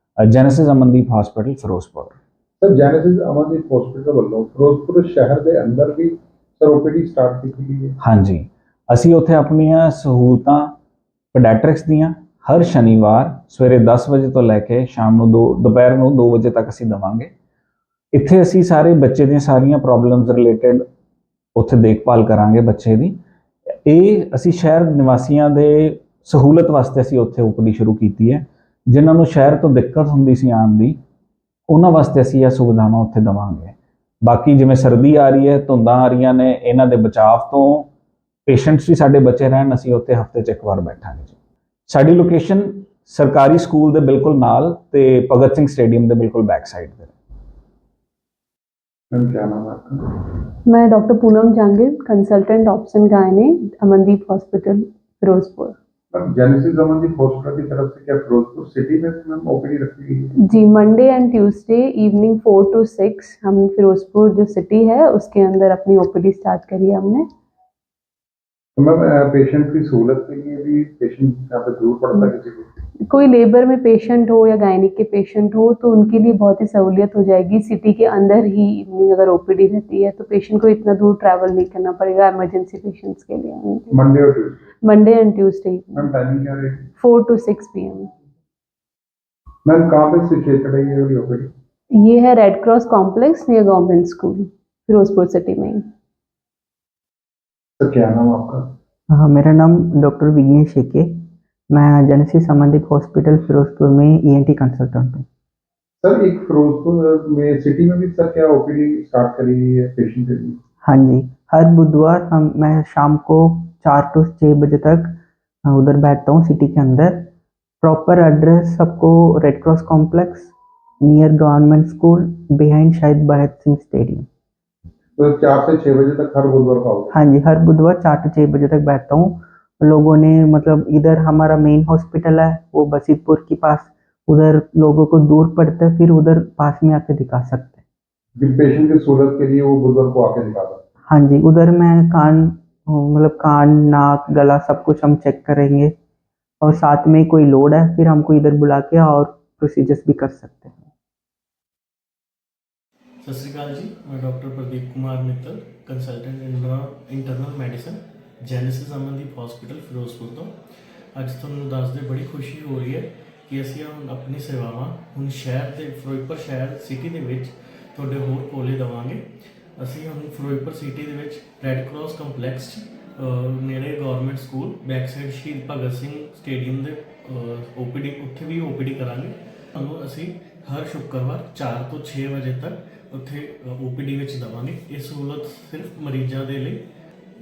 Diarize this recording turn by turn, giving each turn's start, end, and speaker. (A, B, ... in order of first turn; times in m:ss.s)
0:00.2-0:02.2 A
0:02.6-0:08.0 B
0:08.0-0:10.8 A
0:11.3-0:17.3 A
0:18.1-0:20.9 A
0:21.6-0:23.2 A
0:23.9-0:31.0 A
0:31.7-0:37.9 A
0:38.5-0:41.3 A
0:41.9-0:47.1 A
0:49.1-0:50.2 B
0:50.6-0:55.8 C
0:56.1-1:00.3 B
1:00.4-1:07.3 C
1:08.8-1:12.7 B
1:13.0-1:24.0 C
1:23.9-1:24.7 B
1:24.8-1:26.1 C
1:26.0-1:26.9 B
1:27.0-1:28.1 C
1:29.6-1:31.5 B
1:31.9-1:35.8 C
1:37.8-1:38.7 B
1:39.1-1:45.2 D
1:46.0-1:50.6 B
1:50.8-2:00.5 D
2:01.0-2:04.3 D
2:05.2-2:07.1 B
2:07.1-2:17.8 D
2:18.4-2:20.8 B
2:21.1-2:25.9 D
2:26.6-2:30.9 D
2:33.2-2:40.5 E
2:41.2-2:49.2 E
2:49.8-3:06.8 E